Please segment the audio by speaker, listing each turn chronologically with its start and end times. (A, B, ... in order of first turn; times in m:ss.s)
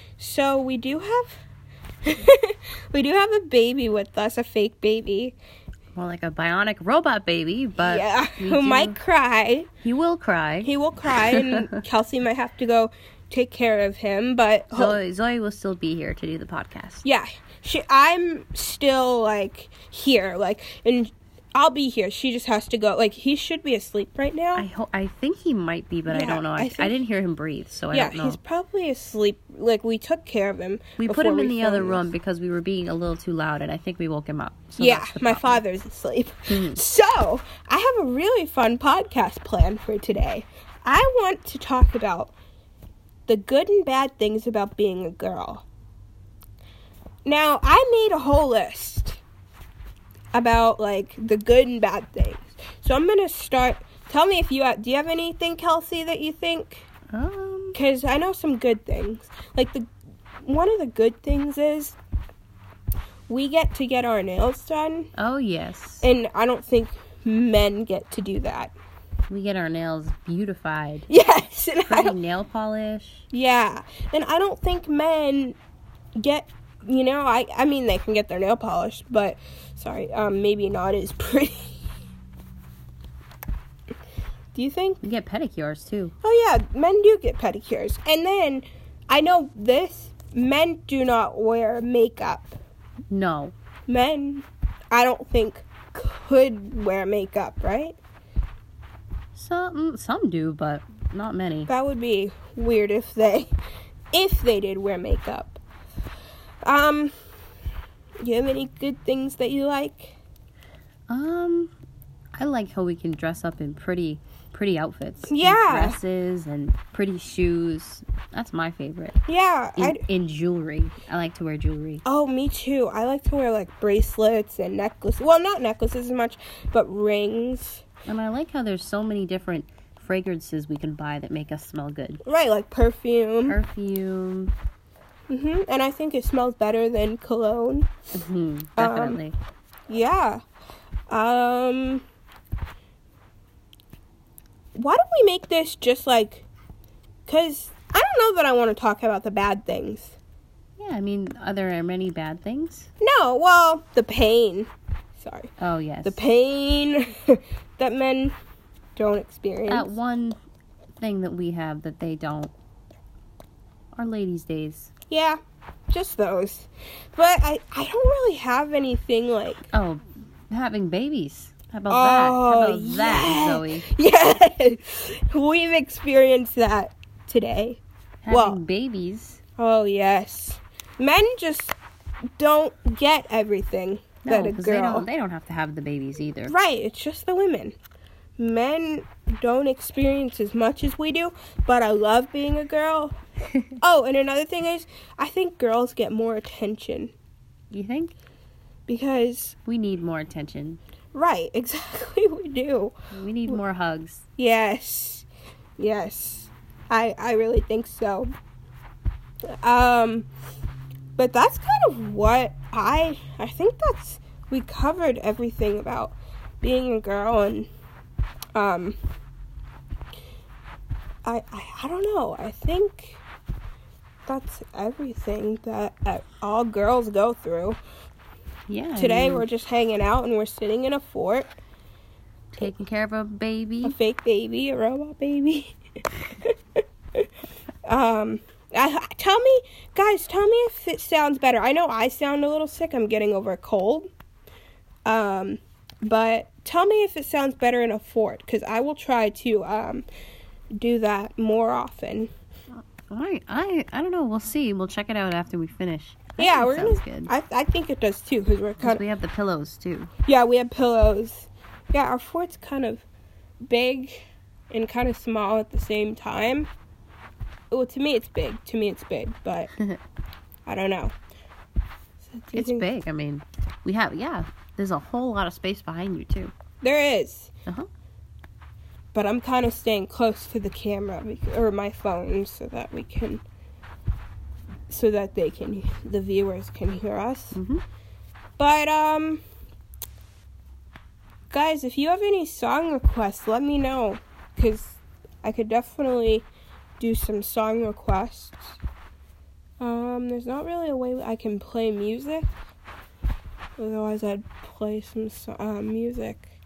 0:00.2-0:01.4 A
0:02.0-0:05.4 A
0:05.9-0:09.0 B
0:07.8-0:09.7 A
0:09.8-0:10.7 B
0:10.6-0:15.0 A
0:11.3-0:11.7 B
0:14.7-0:17.0 B
0:17.0-0:24.7 A
0:24.6-0:28.4 B
0:26.1-0:27.0 A
0:27.9-0:32.0 A
0:31.0-0:35.6 B
0:34.8-0:42.3 A
0:36.5-0:36.8 B
0:43.3-0:45.6 A
0:47.2-0:49.2 A
0:50.3-0:56.9 A
0:57.1-0:57.8 B
0:57.7-0:59.9 A
1:00.4-1:02.0 A
1:03.3-1:05.1 A
1:05.2-1:06.0 B
1:06.0-1:08.7 A
1:09.3-1:11.1 B
1:11.1-1:12.2 A
1:11.9-1:13.2 B
1:13.3-1:15.6 A
1:16.2-1:21.8 A
1:24.6-1:25.0 A
1:25.0-1:26.1 B
1:26.2-1:32.6 A
1:33.1-1:33.5 B
1:33.9-1:38.0 A
1:39.3-1:41.7 B
1:41.7-1:43.5 A
1:44.1-1:45.6 A
1:46.6-1:47.1 A
1:48.2-1:50.2 A
1:51.1-1:51.7 B
1:52.3-1:59.2 B
1:55.2-1:56.0 A
1:59.3-2:00.0 A
1:59.8-2:02.0 B
2:02.0-2:07.8 A
2:08.1-2:12.2 B
2:12.2-2:13.6 A
2:13.5-2:14.5 B
2:15.3-2:17.9 A
2:18.1-2:19.4 B
2:18.8-2:19.2 A
2:19.9-2:20.4 A
2:21.1-2:22.0 A
2:24.7-2:26.5 A
2:27.3-2:30.2 A
2:30.8-2:32.9 B
2:33.0-2:35.5 A
2:35.6-2:36.2 B
2:36.0-2:38.3 A
2:39.0-2:39.9 A
2:39.7-2:40.4 B
2:41.0-2:42.5 B
2:43.9-2:44.9 B
2:45.1-2:49.7 A
2:49.7-2:53.9 B
2:51.9-2:58.6 A
2:58.2-2:59.4 B
2:59.6-3:01.8 A
3:02.4-3:05.1 A
3:04.2-3:06.5 B
3:06.5-3:07.8 A
3:08.4-3:13.2 A
3:13.8-3:17.1 A
3:17.7-3:18.2 B
3:18.9-3:19.6 A
3:19.7-3:20.8 B
3:21.1-3:23.0 A
3:23.1-3:24.2 B
3:24.4-3:25.2 A
3:25.8-3:28.3 A
3:29.5-3:30.3 A
3:31.2-3:37.7 A
3:38.5-3:39.0 A
3:41.2-3:43.2 A
3:44.2-3:47.8 A
3:48.7-3:49.5 B
3:49.0-3:51.5 A
3:52.5-3:54.0 B
3:53.8-3:56.6 A
3:57.8-4:04.1 A
4:05.0-4:10.0 A
4:10.7-4:12.3 A
4:12.7-4:17.3 B
4:16.4-4:19.0 A
4:18.8-4:20.1 B
4:20.2-4:23.0 A
4:23.6-4:26.7 A
4:27.7-4:29.7 A
4:30.6-4:31.1 A
4:32.2-4:32.9 A
4:32.5-4:36.5 B
4:36.8-4:37.5 A
4:39.1-4:43.4 A
4:44.9-4:47.6 A
4:47.5-4:47.8 B
4:48.6-4:49.4 A
4:51.5-4:56.5 A
4:57.0-4:58.8 A
4:59.8-5:02.5 A
5:03.8-5:06.5 A